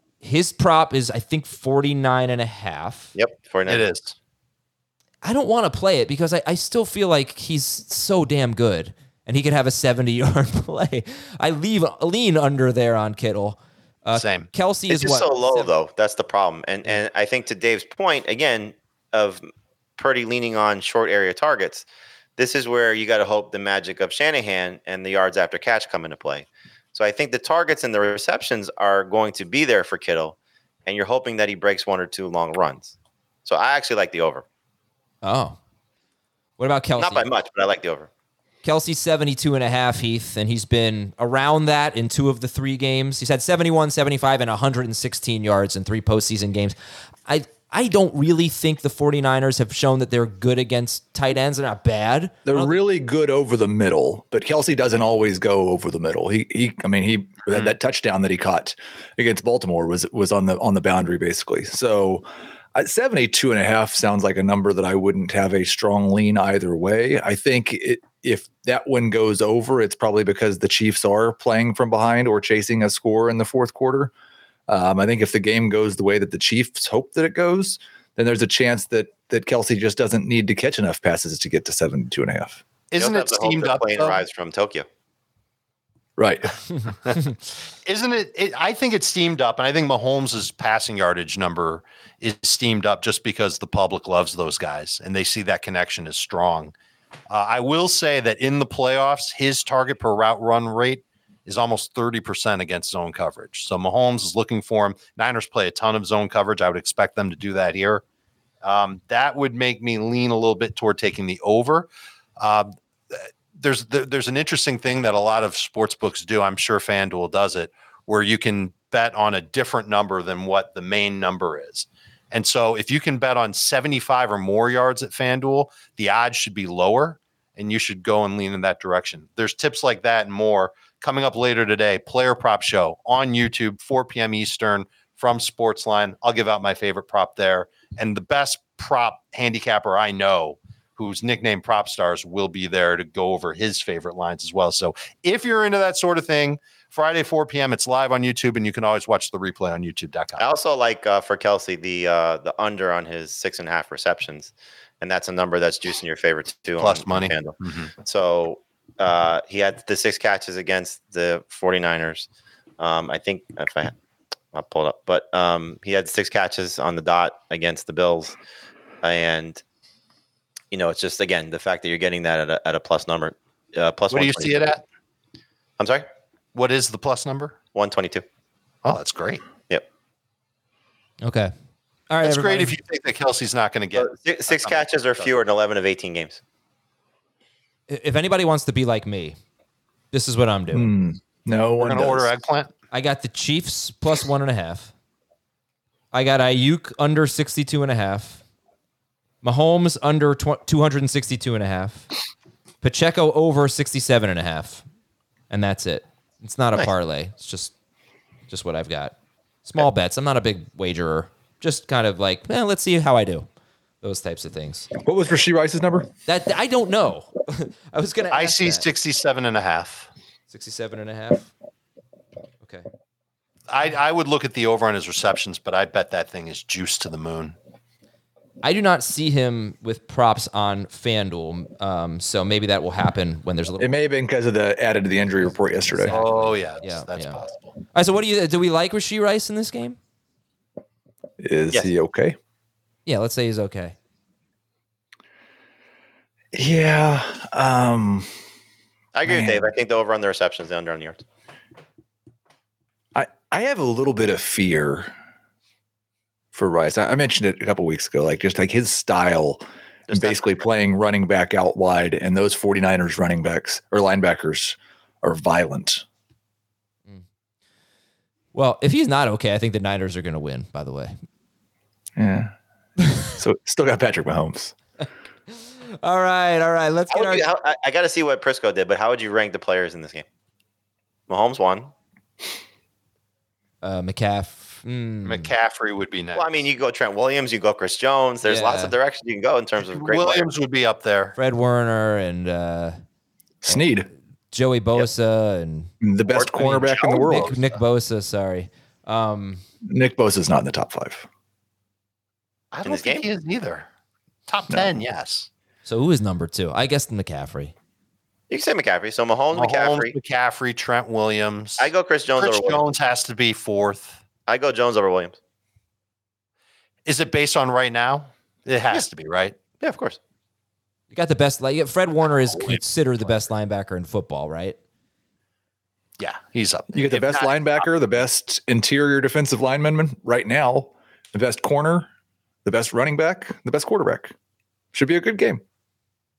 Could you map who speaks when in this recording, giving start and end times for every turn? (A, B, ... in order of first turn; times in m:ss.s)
0:00.2-0:03.1 A
0:03.1-0:03.9 B
0:03.7-0:04.1 C
0:05.2-0:15.7 A
0:14.1-0:14.5 C
0:14.9-0:19.4 B
0:20.0-0:21.9 B
0:22.4-0:34.4 B
0:35.2-0:35.6 A
0:36.6-0:37.3 A
0:37.0-0:38.1 B
0:38.6-0:46.7 A
0:47.3-0:52.8 A
0:52.4-1:14.1 D
1:14.7-1:22.6 D
1:22.9-1:24.2 C
1:23.0-1:24.9 B
1:26.2-1:26.6 D
1:27.8-1:36.7 C
1:37.3-1:48.0 C
1:48.6-2:30.5 C
2:30.4-2:42.3 B
2:36.8-2:37.9 C
2:42.8-2:43.9 B
2:44.5-2:48.3 B
2:49.0-2:49.6 B
2:50.7-2:54.7 B
2:54.1-2:54.8 C
2:55.8-2:56.1 B
2:56.6-2:57.5 C
2:57.7-2:58.2 B
2:58.8-2:59.4 C
3:01.2-3:01.5 A
3:02.1-3:02.8 A
3:02.2-3:05.4 C
3:04.0-3:06.4 B
3:07.9-3:09.4 A
3:10.1-3:10.9 A
3:10.7-3:12.3 D
3:11.8-3:12.7 C
3:12.9-3:14.9 A
3:16.1-3:18.4 A
3:19.4-3:22.1 A
3:22.8-3:24.8 A
3:25.5-3:27.7 A
3:28.5-3:33.5 A
3:34.0-3:34.9 A
3:35.0-3:36.1 D
3:36.3-3:38.8 A
3:38.3-3:40.1 C
3:40.5-3:41.5 A
3:43.7-3:47.6 C
3:48.6-3:53.9 A
3:53.8-3:56.1 D
3:55.8-3:57.4 A
3:56.1-3:57.8 C
3:57.9-4:00.0 A
4:01.4-4:02.4 D
4:03.0-4:04.0 A
4:06.5-4:08.4 D
4:09.1-4:11.2 B
4:09.2-4:09.7 D
4:13.1-4:15.1 D
4:16.5-4:26.0 D
4:20.1-4:20.5 B
4:28.5-4:31.2 A
4:32.2-4:32.5 D
4:33.2-4:34.7 D
4:35.5-4:37.5 A
4:37.1-4:40.2 B
4:41.3-4:41.9 B
4:43.8-4:45.5 A
4:45.2-4:46.6 C
4:46.4-4:50.5 B
4:48.4-4:48.9 A
4:49.8-4:51.4 C
4:51.4-4:53.0 A
4:53.6-4:54.1 D
4:54.5-4:55.9 A
4:56.0-4:57.6 D
4:56.3-4:57.8 B
4:56.6-4:59.6 A
4:59.9-5:01.3 D
5:02.7-5:03.9 C
5:02.8-5:03.3 B
5:04.5-5:05.5 C
5:04.7-5:05.0 D
5:05.8-5:07.7 A
5:08.5-5:10.1 B
5:09.5-5:14.2 C
5:11.8-5:12.8 B
5:14.5-5:15.4 B
5:17.0-5:19.6 C
5:19.8-5:20.2 B
5:21.1-5:24.8 A
5:26.2-5:27.9 C
5:26.9-5:32.1 D
5:32.6-5:34.3 D
5:34.9-5:35.6 D